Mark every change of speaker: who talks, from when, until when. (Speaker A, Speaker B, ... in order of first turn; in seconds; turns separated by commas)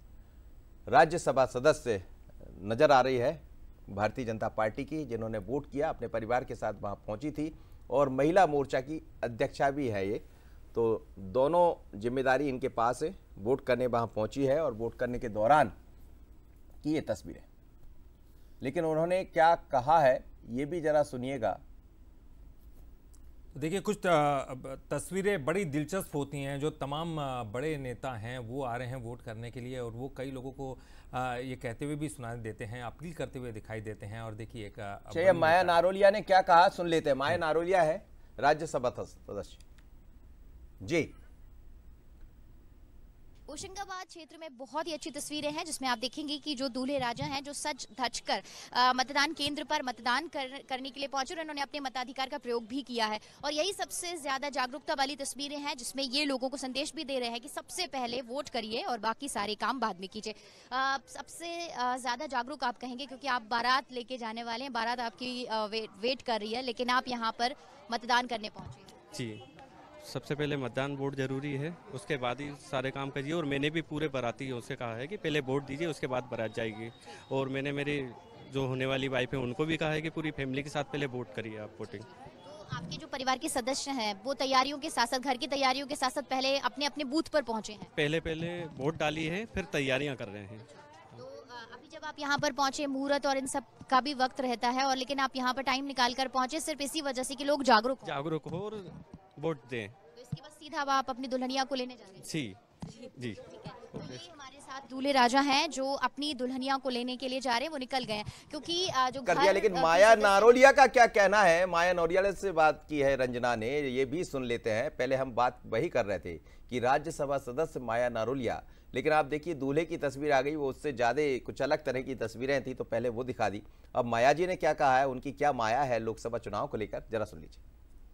Speaker A: 0.9-15.7, Speaker A: 16.8-17.5, Speaker A: 18.6-21.6, Speaker B: 23.6-35.8, Speaker A: 35.1-39.6, Speaker A: 40.8-41.1, Speaker C: 43.5-68.9, Speaker D: 69.1-69.4, Speaker D: 70.0-82.1, Speaker C: 82.4-87.9, Speaker D: 87.9-90.7, Speaker C: 91.1-98.1, Speaker D: 98.0-100.0, Speaker C: 100.2-110.6, Speaker D: 102.2-102.6, Speaker D: 103.2-103.4, Speaker D: 103.9-104.3, Speaker A: 109.2-127.6